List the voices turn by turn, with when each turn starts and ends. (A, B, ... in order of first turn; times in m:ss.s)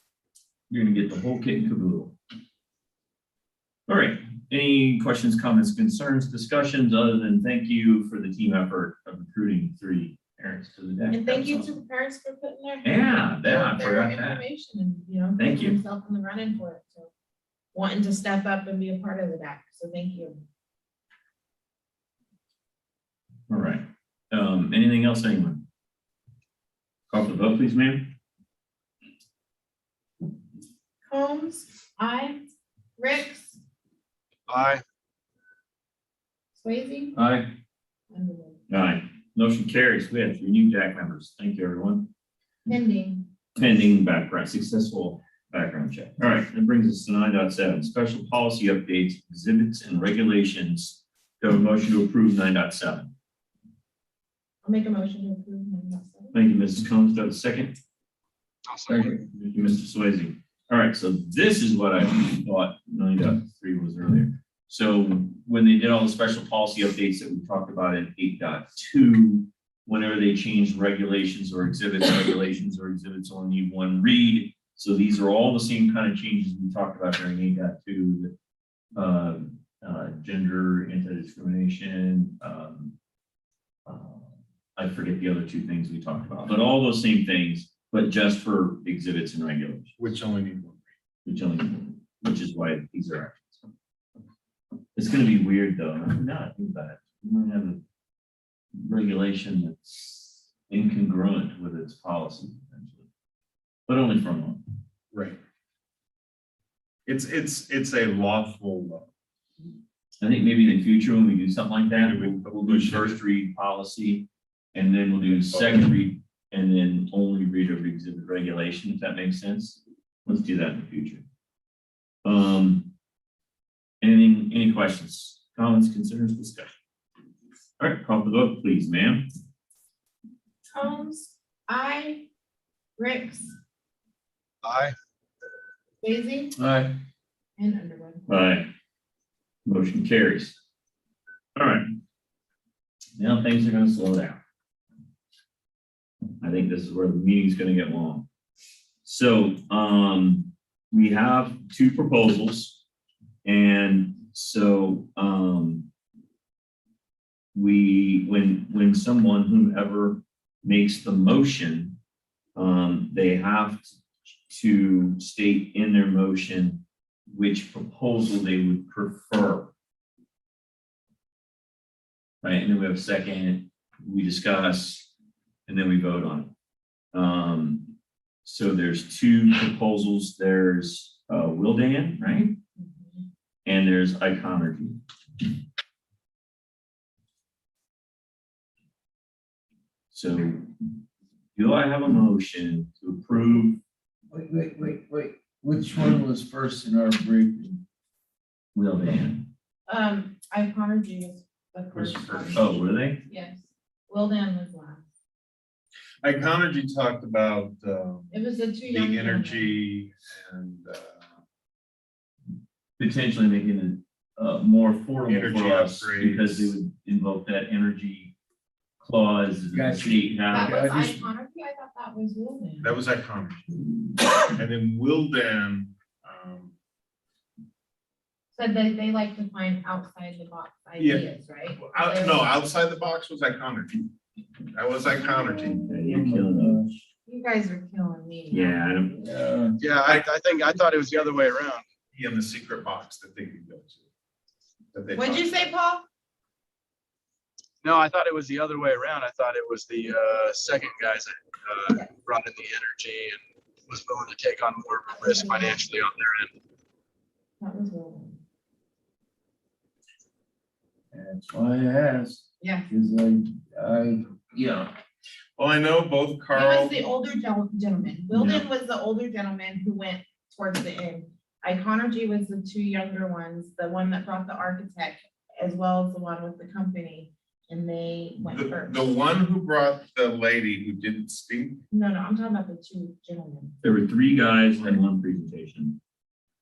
0:00.7-0:02.1 A
0:03.9-0:11.8 A
0:11.1-0:17.1 B
0:12.8-0:14.4 A
0:15.4-0:15.8 A
0:17.7-0:20.4 B
0:23.5-0:25.6 A
0:27.1-0:28.1 A
0:31.1-0:32.5 B
0:33.0-0:33.6 B
0:34.5-0:34.8 C
0:36.5-0:37.2 B
0:37.1-0:37.5 A
0:38.1-0:38.6 B
0:38.7-0:42.1 A
0:42.7-0:43.3 B
0:43.6-0:53.1 A
0:54.6-0:56.4 B
0:56.3-0:57.8 A
0:58.7-0:59.2 C
0:58.9-0:59.3 D
0:59.5-1:18.3 A
1:19.0-1:22.9 A
1:23.9-1:30.0 A
1:30.0-1:30.8 E
1:31.2-1:33.6 A
1:35.0-1:37.8 A
1:38.8-1:43.1 A
1:43.9-1:44.6 A
1:45.1-1:45.4 E
1:47.1-1:49.1 E
1:50.2-2:01.2 A
1:51.9-1:53.2 E
1:55.4-1:55.9 E
2:02.2-2:02.9 A
2:04.0-2:06.7 A
2:07.8-2:09.3 A
2:10.7-2:12.3 B
2:13.0-2:13.6 B
2:14.6-2:15.0 C
2:16.0-2:16.6 B
2:16.6-2:17.0 D
2:17.6-2:18.3 B
2:18.3-2:18.7 A
2:19.7-2:20.6 A
2:21.6-2:21.9 A
2:23.2-2:24.4 A
2:26.4-2:28.3 A
2:29.0-2:32.8 A
2:33.4-2:35.9 A
2:37.6-2:42.0 A
2:42.6-2:44.0 A
2:44.5-2:49.7 A
2:52.4-2:55.1 A
2:55.7-2:56.5 A
2:57.1-2:57.9 A
2:58.4-3:02.6 A
3:02.8-3:03.2 B
3:03.6-3:05.0 A
3:10.1-3:10.7 A
3:11.6-3:13.8 A
3:14.3-3:17.8 D
3:18.8-3:19.5 A
3:19.9-3:25.0 B
3:21.9-3:22.7 E
3:22.5-3:23.2 A
3:26.2-3:28.3 E
3:28.3-3:29.8 B
3:28.9-3:31.3 E
3:33.0-3:38.3 A
3:35.3-3:36.8 E
3:39.0-3:40.8 A
3:39.7-3:41.3 D
3:40.5-3:43.0 B
3:42.8-3:43.6 E
3:44.5-3:46.7 E
3:48.5-3:52.5 B
3:51.0-3:54.1 E
3:54.7-3:55.8 E
3:55.4-3:57.0 D
3:55.8-3:56.8 A
3:57.3-3:59.2 B
3:58.5-3:59.2 A
3:59.2-3:59.8 D
3:59.8-4:01.8 C
4:02.1-4:04.0 E
4:04.9-4:05.7 E
4:05.2-4:06.0 B
4:07.8-4:16.5 C
4:15.2-4:15.7 B
4:17.6-4:18.4 B
4:21.1-4:24.9 D
4:22.6-4:22.9 B
4:25.6-4:27.0 E
4:26.5-4:39.1 B
4:28.3-4:28.6 A
4:38.4-4:41.8 E
4:41.9-4:43.8 B
4:43.8-4:46.0 A